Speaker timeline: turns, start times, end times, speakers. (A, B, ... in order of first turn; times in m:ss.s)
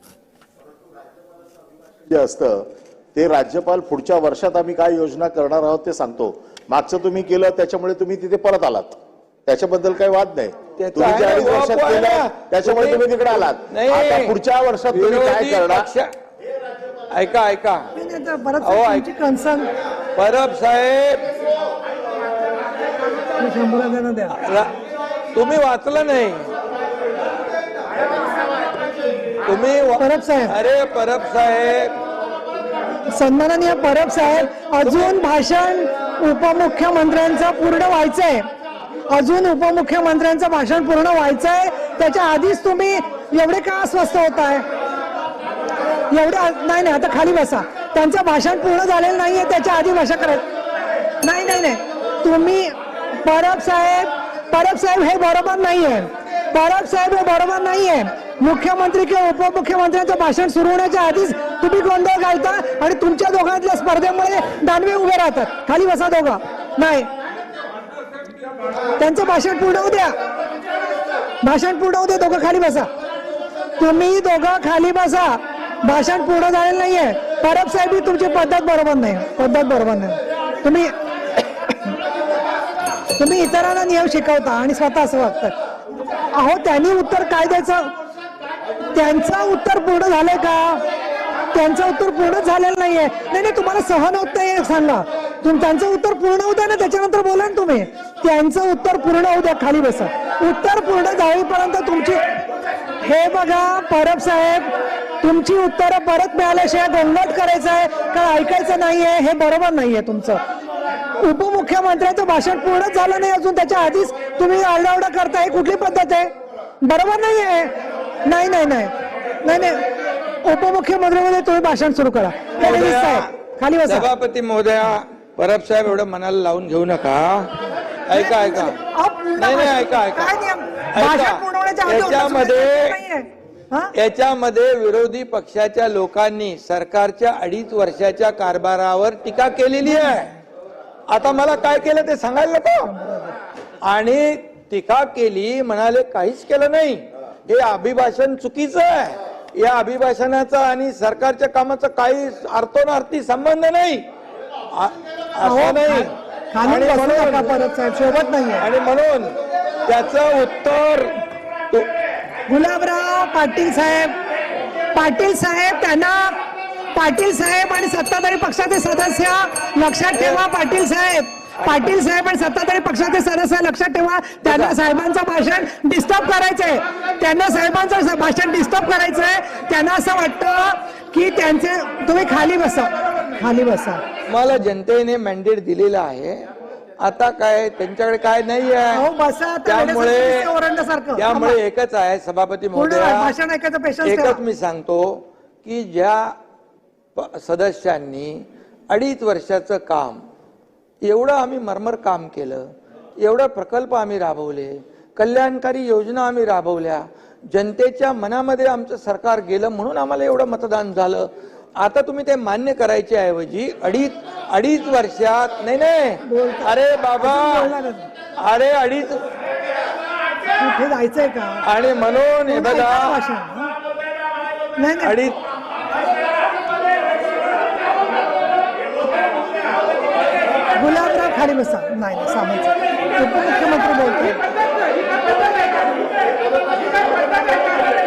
0:02.1-0:15.9 A
0:10.8-0:14.4 B
0:14.9-0:16.1 B
0:17.1-0:17.9 B
0:17.9-0:19.7 C
0:18.6-0:19.0 B
0:20.2-0:21.2 B
0:23.4-0:24.3 C
0:24.3-0:24.7 B
0:25.3-0:26.5 B
0:29.4-0:31.9 B
0:30.0-0:30.5 C
0:33.1-0:38.4 C
0:34.8-0:35.2 B
0:39.1-0:44.6 C
0:46.1-0:50.4 C
0:51.2-1:07.1 C
1:09.0-1:10.2 C
1:11.4-1:12.9 C
1:13.8-1:20.9 C
1:23.2-1:25.5 C
1:26.4-1:27.9 C
1:28.9-1:30.8 C
1:31.5-1:42.2 C
1:43.0-1:44.7 C
1:45.2-1:50.4 C
1:51.2-1:56.3 C
1:56.8-1:57.7 C
1:58.3-1:59.8 C
2:00.4-2:04.1 C
2:02.6-2:03.3 B
2:03.8-2:08.8 B
2:08.1-2:13.9 C
2:09.4-2:10.3 B
2:10.9-2:12.9 B
2:13.9-2:20.3 B
2:19.9-2:20.2 C
2:21.1-2:22.9 B
2:22.8-2:23.4 C
2:23.8-2:34.0 B
2:34.7-2:36.1 B
2:35.4-2:38.7 C
2:36.6-2:37.6 B
2:38.6-2:39.3 B
2:39.8-2:41.2 B
2:42.5-2:44.1 C
2:44.9-2:46.3 C
2:46.9-3:04.0 C
2:50.1-2:50.4 B
2:51.6-2:51.9 B
2:54.4-2:54.7 B
3:04.3-3:06.4 B
3:07.0-3:09.0 B
3:08.9-3:11.6 C
3:09.6-3:10.5 B
3:11.2-3:13.3 B
3:12.7-3:14.4 C
3:14.0-3:16.3 B
3:17.2-3:20.2 B
3:21.0-3:37.7 B
3:36.2-3:38.1 C
3:38.4-3:39.2 B
3:40.6-3:41.6 C
3:41.6-3:43.2 B
3:42.5-3:43.7 C
3:44.8-3:45.2 C
3:45.0-3:45.4 B
3:50.8-3:54.4 C